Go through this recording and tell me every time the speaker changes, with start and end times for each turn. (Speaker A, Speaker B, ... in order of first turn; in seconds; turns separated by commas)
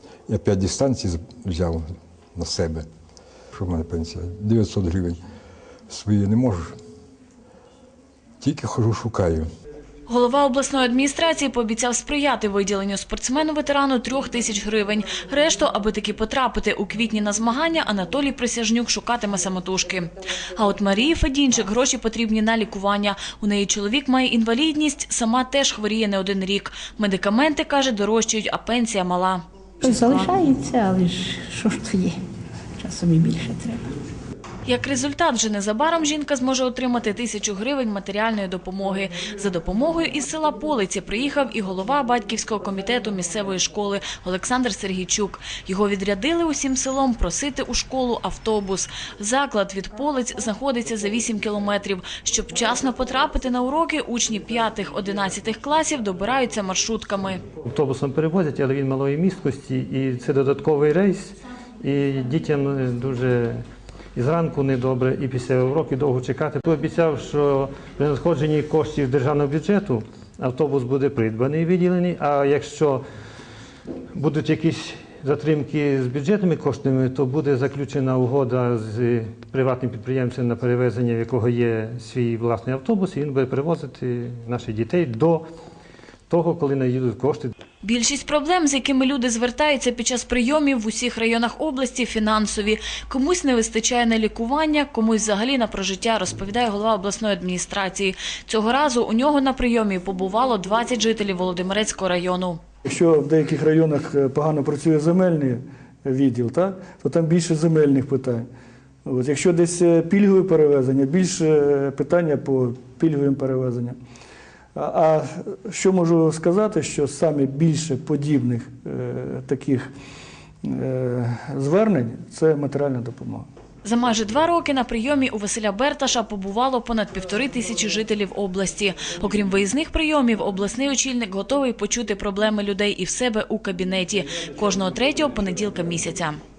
Speaker A: 0.3-2.9, Speaker A: 3.5-5.2, Speaker A: 5.9-6.8, Speaker A: 8.4-9.5, Speaker B: 10.1-30.3, Speaker C: 29.8-32.2, Speaker C: 32.8-33.9, Speaker B: 34.7-57.4, Speaker D: 57.6-63.6, Speaker D: 64.2-73.0, Speaker D: 74.1-85.4, Speaker D: 86.3-87.5, Speaker B: 87.8-102.6, Speaker E: 102.9-108.5, Speaker E: 109.0-114.0, Speaker E: 114.8-119.9, Speaker E: 120.6-123.5, Speaker B: 123.8-136.4